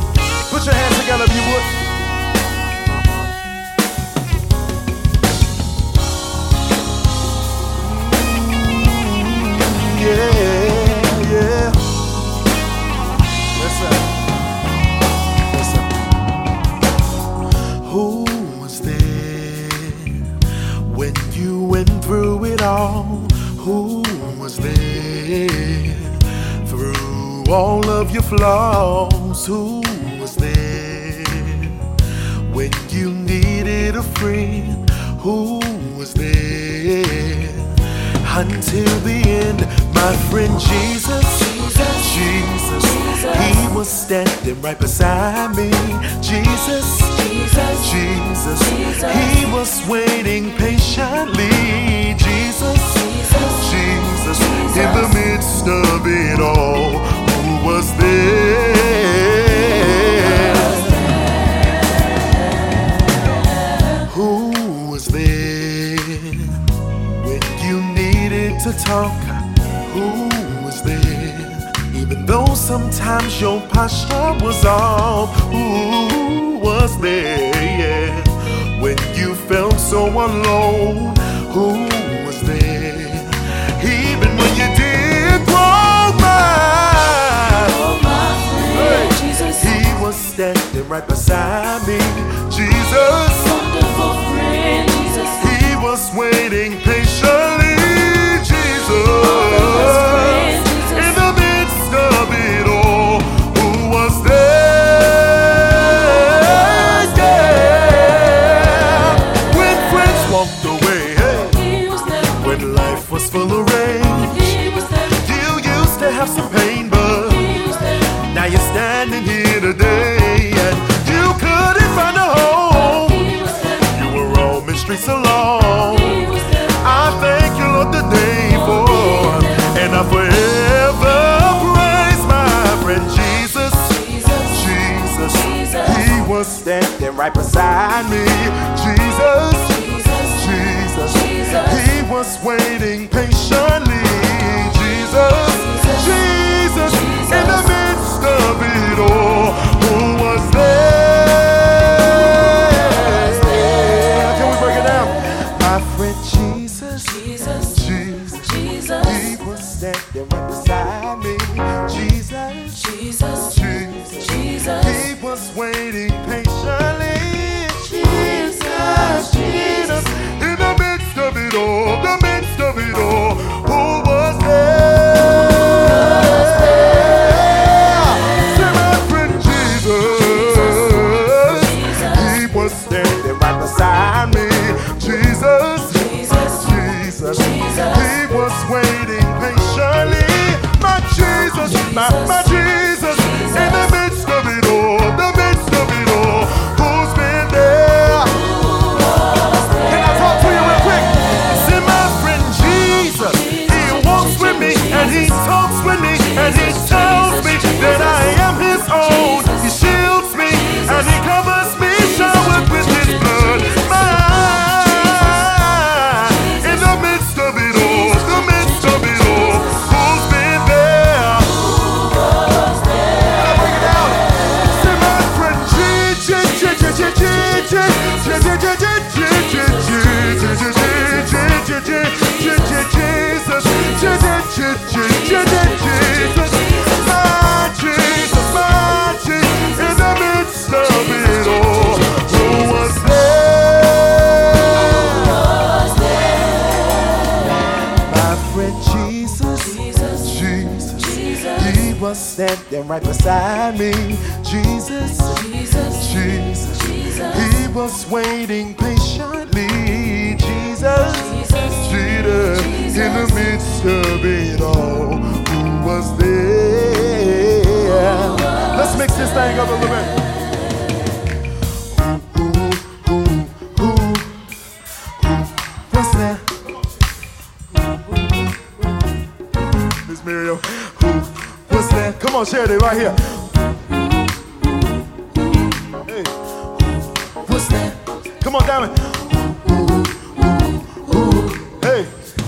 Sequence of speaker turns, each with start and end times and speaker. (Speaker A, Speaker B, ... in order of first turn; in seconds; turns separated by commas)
Speaker A: 0.5-1.8, Speaker A: 7.7-11.9, Speaker A: 13.5-14.1, Speaker A: 15.5-16.1, Speaker A: 17.6-61.1, Speaker A: 64.0-198.9, Speaker A: 199.7-221.9, Speaker A: 223.2-245.7, Speaker A: 247.6-270.2, Speaker A: 271.7-274.5, Speaker A: 275.0-276.6, Speaker A: 280.0-283.6, Speaker A: 285.6-292.2